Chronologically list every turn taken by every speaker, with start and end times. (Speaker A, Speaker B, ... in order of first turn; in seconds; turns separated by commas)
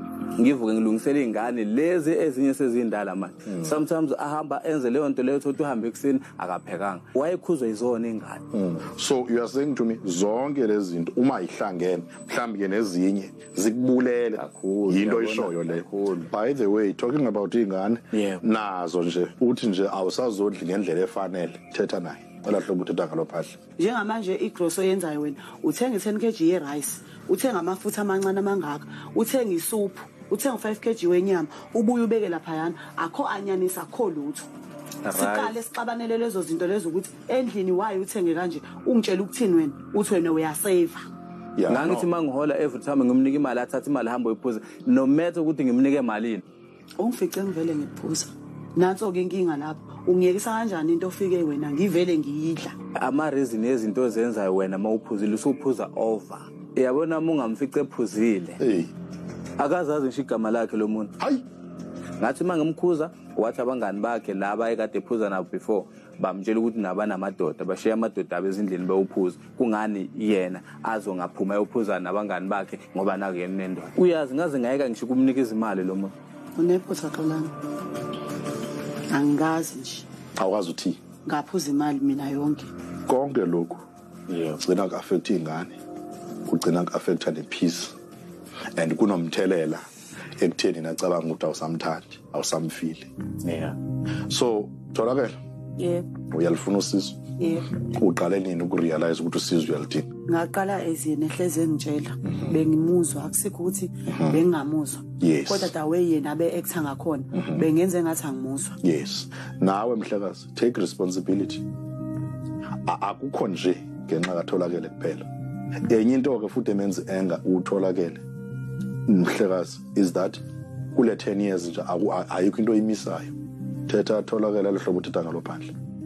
Speaker A: 0.4-8.4, Speaker B: 8.5-23.6, Speaker A: 14.4-16.3, Speaker A: 18.1-18.4, Speaker C: 23.8-34.5, Speaker A: 35.0-35.5, Speaker C: 35.1-41.0, Speaker B: 41.6-42.1, Speaker A: 41.7-46.4, Speaker C: 47.0-52.8, Speaker A: 53.0-58.6, Speaker B: 58.6-58.9, Speaker A: 59.6-61.1, Speaker B: 61.2-61.4, Speaker A: 62.2-76.1, Speaker C: 76.6-77.5, Speaker C: 79.1-80.0, Speaker B: 80.4-81.0, Speaker C: 81.3-82.7, Speaker B: 83.1-83.8, Speaker A: 84.3-84.6, Speaker B: 84.6-85.8, Speaker B: 86.5-88.0, Speaker B: 88.8-89.8, Speaker B: 90.4-93.1, Speaker A: 93.4-93.8, Speaker B: 94.3-95.3, Speaker C: 95.8-96.1, Speaker B: 96.3-100.1, Speaker C: 97.4-97.7, Speaker C: 100.3-108.8, Speaker B: 104.1-104.4, Speaker B: 105.2-105.7, Speaker B: 108.8-111.6, Speaker B: 112.9-115.2, Speaker B: 115.8-118.2, Speaker B: 119.1-120.4, Speaker B: 120.9-123.3, Speaker B: 123.9-125.7